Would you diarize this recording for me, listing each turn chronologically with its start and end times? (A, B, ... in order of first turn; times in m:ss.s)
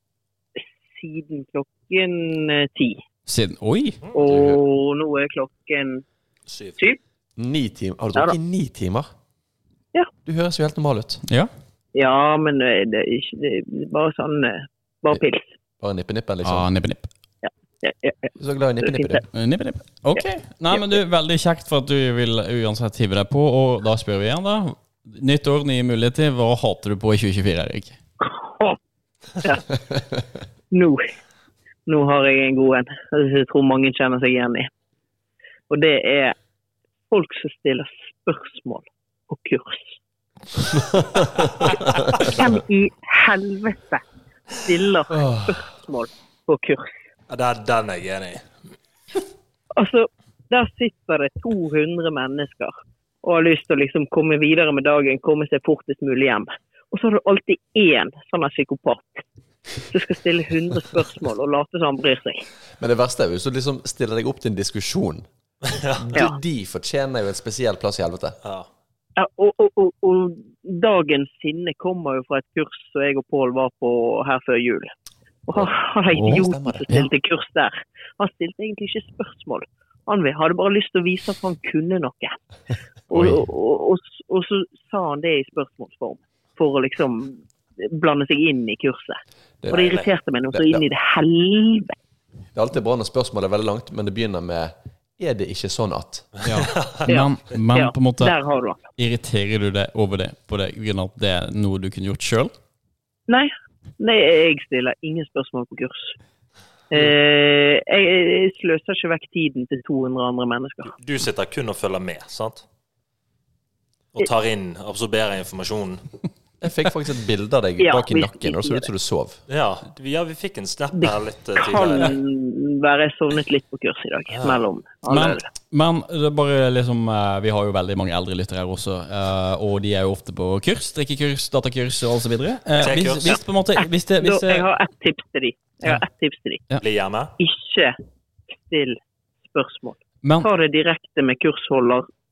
0:00.9-0:03.0 A
0:03.3-0:04.0 B
0:04.1-0:06.0 A
0:04.2-0:04.6 C
0:06.5-0:06.8 D
0:07.4-0:09.1 C
0:10.2-0:11.2 C
0:12.0-0:15.5 A
0:15.8-0:16.7 C
0:16.4-0:17.1 B
0:17.4-0:19.2 A
0:18.4-0:19.2 C
0:19.3-0:28.0 B
0:20.2-0:20.8 A
0:28.2-0:28.8 A
0:29.4-0:29.8 A
0:30.7-0:31.1 A
0:31.9-0:34.7 A
0:35.7-0:36.4 A
0:37.1-0:40.0 A
0:41.4-0:44.0 A
0:44.6-0:46.9 A
0:45.1-0:45.6 C
0:47.3-0:48.5 D
0:49.8-0:59.2 A
0:59.8-1:02.4 A
1:02.8-1:05.3 C
1:05.6-1:06.2 D
1:05.9-1:08.4 C
1:08.4-1:08.7 D
1:09.2-1:14.9 A
1:15.5-1:22.4 A
1:15.5-1:16.9 C
1:16.2-1:17.1 B
1:23.1-1:29.2 A
1:23.1-1:23.4 B
1:29.6-1:30.8 C
1:29.7-1:32.0 A
1:29.7-1:30.1 D
1:32.6-1:36.3 C
1:36.4-1:37.1 D
1:36.4-1:38.4 B
1:37.1-1:38.8 A
1:39.0-1:42.5 B
1:43.3-1:46.1 A
1:46.9-1:50.9 A
1:51.0-1:52.6 D
1:54.2-1:56.0 D
1:56.6-1:59.4 C
1:57.8-1:58.8 A
1:59.5-2:02.2 D
2:01.0-2:05.4 A
2:04.3-2:04.7 D
2:05.1-2:14.7 B
2:12.8-2:13.4 D
2:13.8-2:16.6 A
2:16.8-2:17.3 D
2:17.4-2:18.0 A
2:18.7-2:19.0 A
2:19.5-2:22.1 A
2:20.2-2:20.5 B